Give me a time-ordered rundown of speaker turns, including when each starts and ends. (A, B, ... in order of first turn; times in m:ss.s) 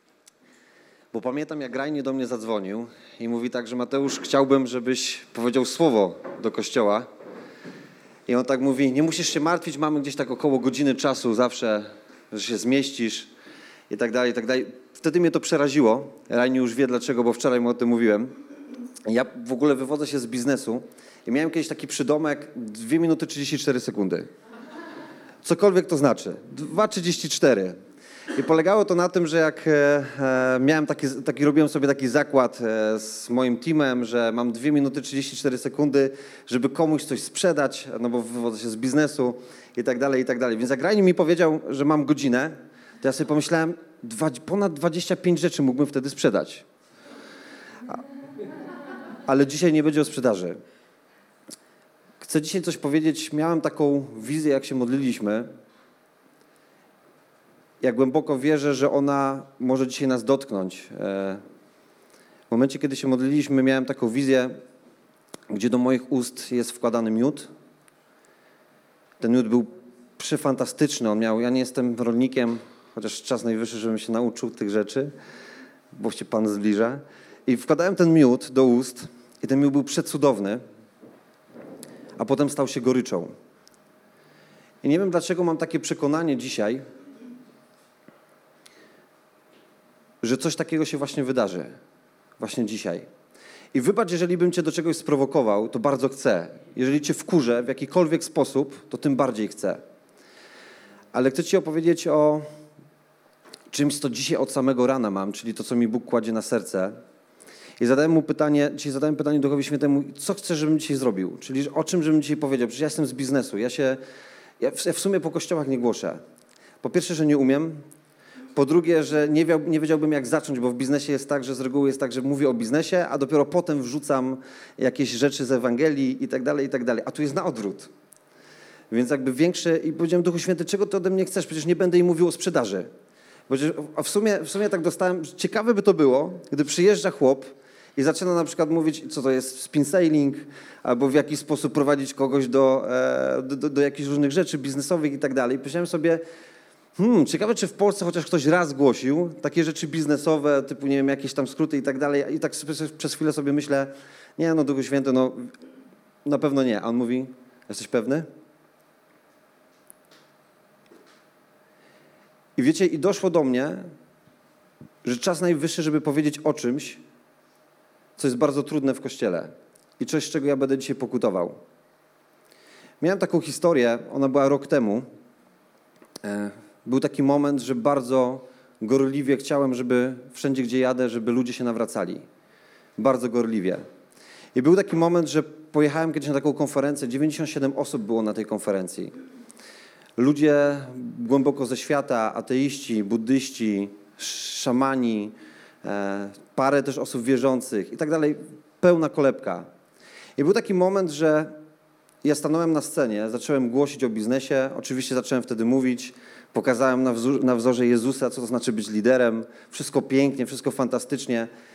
0:01.1-0:07.1 A
0:08.3-0:13.3 A
0:13.9-0:18.3 A
0:19.0-0:24.3 A
0:25.4-0:27.8 A
0:28.3-0:46.6 A
0:49.2-0:50.6 A
0:52.2-0:55.5 A
0:57.8-1:01.4 A
1:02.5-1:04.6 A
1:05.5-1:07.5 A
1:09.2-1:15.1 A
1:15.9-1:20.6 A
1:22.2-1:23.3 A
1:24.8-1:26.8 A
1:30.2-1:31.7 A
1:32.4-1:33.1 A
1:33.7-1:39.8 A
1:41.1-1:42.4 A
1:43.7-1:47.0 A
1:47.8-1:54.0 A
1:54.6-1:56.2 A
1:56.8-1:57.8 A
1:58.5-2:07.9 A
2:08.9-2:12.9 A
2:13.5-2:26.2 A
2:27.0-2:35.5 A
2:36.2-2:38.3 A
2:42.6-2:43.9 A
2:45.0-2:47.0 A
2:48.2-2:51.6 A
2:53.0-2:55.0 A
2:56.2-3:02.2 A
3:03.0-3:03.8 A
3:04.5-3:09.1 A
3:10.2-3:19.7 A
3:20.4-3:21.5 A
3:22.2-3:31.5 A